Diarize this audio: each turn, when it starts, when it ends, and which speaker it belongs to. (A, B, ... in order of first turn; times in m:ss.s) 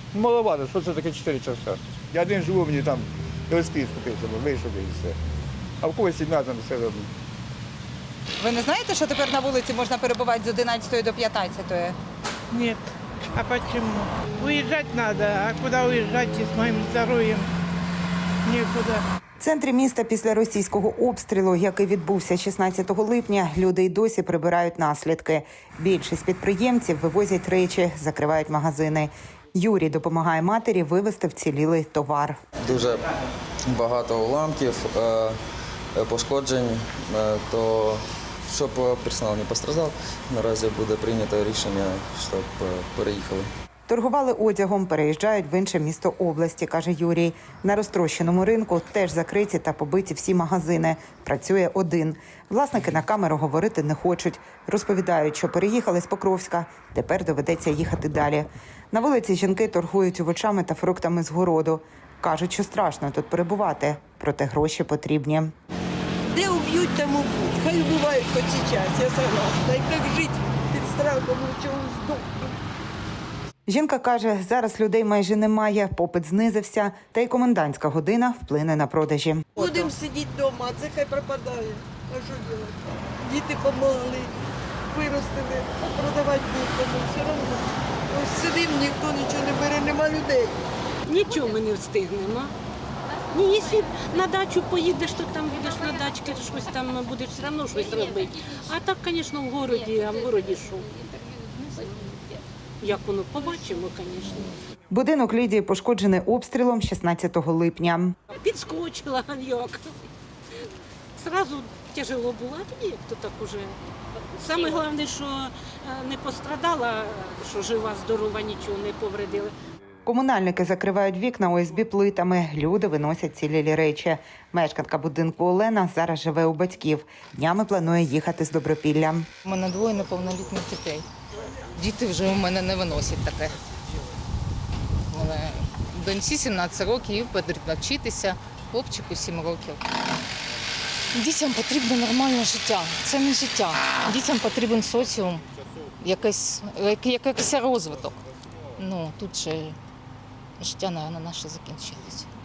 0:00.1-0:05.2 A
0:05.8-0:07.1 A
0:08.4-0:12.0 B
0:12.5-0:12.8 C
0:13.3-0:17.5 C
0:18.4-0:19.0 C
0:19.4-0:32.4 B
0:32.6-0:33.1 D
0:33.7-0:35.4 D
0:35.9-0:43.5 D
0:43.9-1:05.5 B
1:06.3-1:12.6 E
1:13.7-1:19.8 B
1:19.6-1:24.3 E
1:24.9-1:30.6 E
1:31.1-1:32.5 F
1:33.3-1:40.9 F
1:42.8-1:44.6 F
1:44.9-1:48.1 B
1:48.3-1:49.8 F
1:51.2-1:53.8 F
1:54.4-1:59.5 F
2:00.0-2:09.3 B
2:09.4-2:11.0 G
2:11.7-2:13.6 G
2:15.1-2:19.8 G
2:21.1-2:25.4 G
2:26.0-2:28.2 G
2:28.8-2:29.8 G
2:30.6-2:32.3 G